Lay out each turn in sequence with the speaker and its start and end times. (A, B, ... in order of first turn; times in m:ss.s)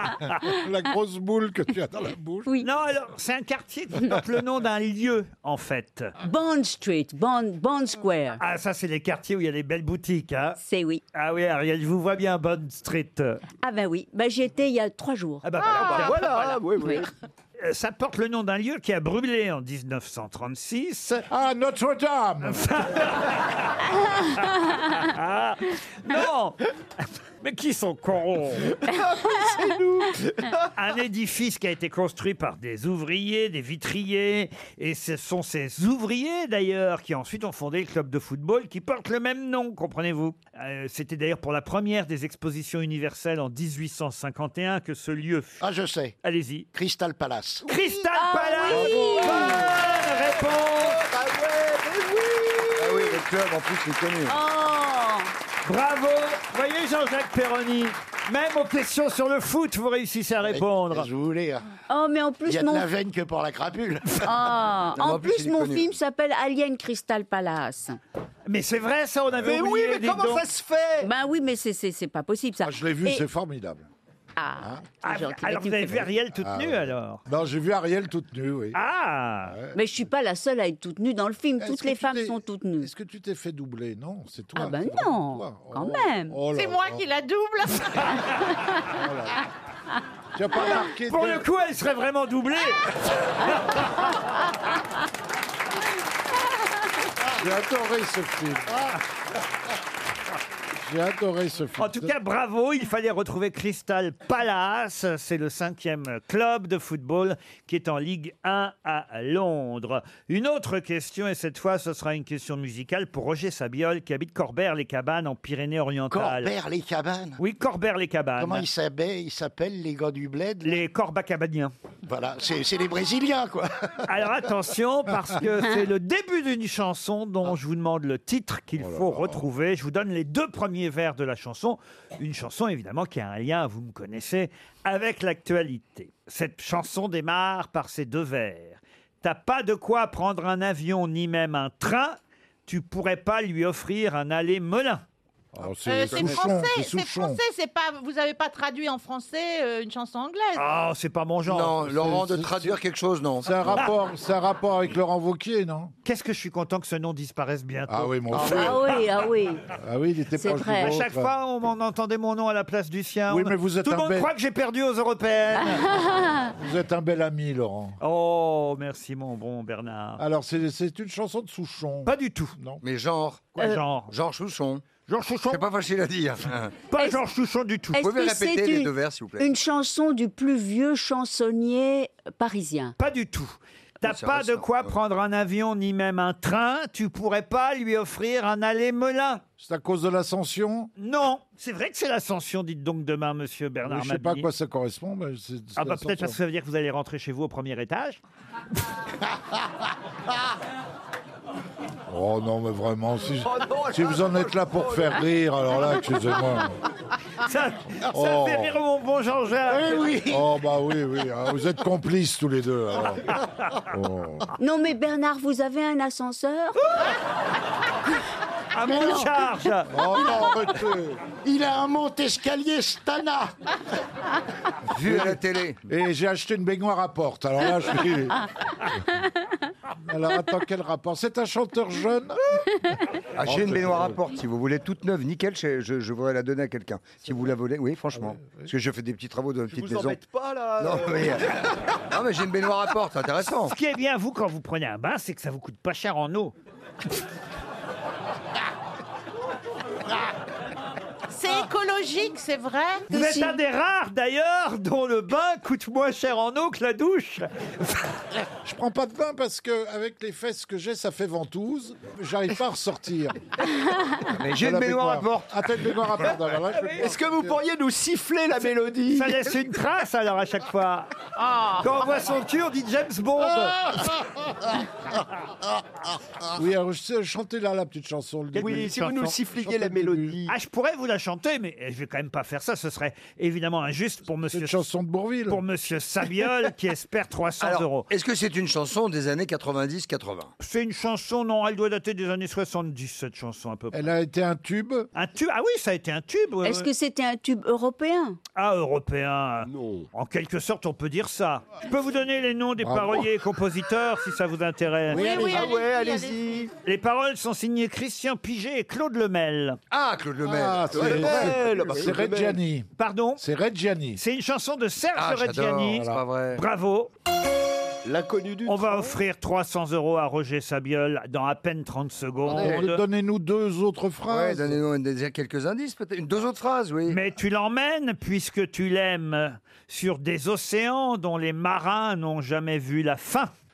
0:00.3-0:02.5 A
0:02.6-0:06.1 B
0:06.2-0:08.4 C
0:08.4-0:10.6 B
0:10.6-0:11.0 C
0:11.1-0:13.4 B
0:13.6-0:15.5 C
0:15.4-0:16.6 B
0:15.6-0:17.1 D
0:17.6-0:21.2 B
0:21.3-0:22.8 A
0:22.4-0:28.8 B
0:28.8-0:30.7 D
0:30.7-0:45.6 B
0:45.6-0:46.1 E
0:46.2-0:46.7 B
0:46.7-0:47.7 E
0:47.6-0:51.0 B
0:48.1-0:49.7 C
0:48.7-0:53.2 D
0:52.8-0:54.4 F
0:54.2-0:55.3 C
0:55.6-1:01.1 B
1:00.4-1:01.6 E
1:01.9-1:02.9 C
1:02.4-1:04.4 E
1:04.2-1:08.0 C
1:05.0-1:06.0 F
1:08.5-1:10.4 B
1:09.4-1:11.1 D
1:11.0-1:13.2 C
1:12.6-1:13.9 A
1:14.4-1:16.1 C
1:14.6-1:14.8 A
1:15.0-1:17.2 B
1:16.3-1:18.8 A
1:18.7-1:19.6 B
1:19.4-1:19.8 A
1:19.7-1:22.9 C
1:21.6-1:27.0 A
1:24.6-1:26.4 C
1:26.5-1:28.2 G
1:28.9-1:29.4 A
1:30.3-1:31.4 A
1:31.0-1:34.0 B
1:37.2-1:39.0 A
1:40.8-1:42.1 A
1:41.8-1:56.5 B
1:56.1-1:57.4 E
1:57.4-1:58.6 B
1:58.4-2:00.8 E
2:00.6-2:01.7 B
2:02.0-2:04.0 E
2:04.0-2:25.0 B
2:08.8-2:09.4 A
2:25.5-2:27.4 A
2:25.8-2:30.6 G
2:26.1-2:26.4 F
2:30.5-2:31.8 B
2:31.4-2:33.8 F
2:31.8-2:32.8 A
2:33.4-2:35.9 A
2:36.0-2:39.0 B
2:37.9-2:38.9 A
2:38.3-2:39.7 C
2:39.8-2:41.3 A
2:40.4-2:41.0 C
2:40.8-2:45.9 B
2:43.3-2:44.3 A
2:46.5-2:48.0 A
2:48.0-2:50.2 B
2:50.2-2:52.8 A
2:52.0-2:52.6 B
2:52.8-2:54.8 F
2:53.6-2:54.1 B
2:55.1-2:55.6 B
2:55.5-2:56.8 F
2:56.9-2:58.0 B
2:57.9-3:02.9 C
2:58.0-2:59.5 F
3:03.0-3:09.4 B
3:04.0-3:04.9 F
3:09.6-3:10.9 A
3:11.0-3:14.5 B
3:13.9-3:16.4 A
3:15.8-3:18.2 B
3:22.1-3:26.8 A
3:23.4-3:25.2 D
3:27.4-3:30.0 B
3:28.1-3:28.8 A
3:29.7-3:30.4 E
3:30.3-3:33.3 A
3:33.9-3:34.5 A
3:34.6-3:36.8 C
3:38.7-3:40.2 B
3:38.9-3:39.3 E
3:39.9-3:41.2 A
3:40.2-3:40.5 E
3:41.2-3:43.5 E
3:44.9-3:45.8 F
3:45.0-3:48.4 A
3:50.0-3:52.6 A
3:53.4-4:00.2 F
3:53.4-3:54.2 A
3:58.1-3:58.7 A
3:59.7-4:01.7 D
4:00.8-4:01.6 F
4:02.1-4:03.7 F
4:03.7-4:06.5 B
4:11.3-4:13.6 G
4:13.1-4:18.1 B
4:18.6-4:23.4 A
4:24.3-4:26.2 F
4:24.5-4:27.6 A
4:26.9-4:29.4 D
4:29.1-4:31.2 B
4:31.4-4:32.0 G
4:31.8-4:34.0 B
4:36.5-4:40.4 A
4:38.5-4:39.3 B
4:38.6-4:40.5 D
4:40.5-4:44.8 B
4:44.5-4:45.6 A
4:45.5-4:48.1 B
4:47.6-4:50.5 F
4:50.6-4:54.0 B
4:53.9-4:55.1 A
4:55.1-4:56.9 B
4:56.6-4:58.4 C
4:58.6-5:05.4 B
4:59.6-5:00.1 D
5:02.8-5:03.3 A
5:05.1-5:06.7 D
5:05.1-5:06.4 G
5:06.8-5:09.8 B
5:09.9-5:11.6 F
5:10.4-5:14.2 A
5:10.9-5:12.6 D
5:13.0-5:13.4 B
5:14.2-5:17.1 B
5:15.2-5:16.6 F
5:15.9-5:16.2 A
5:18.0-5:19.2 D
5:18.6-5:23.0 B
5:22.5-5:24.8 A
5:24.3-5:27.2 F
5:27.1-5:33.5 B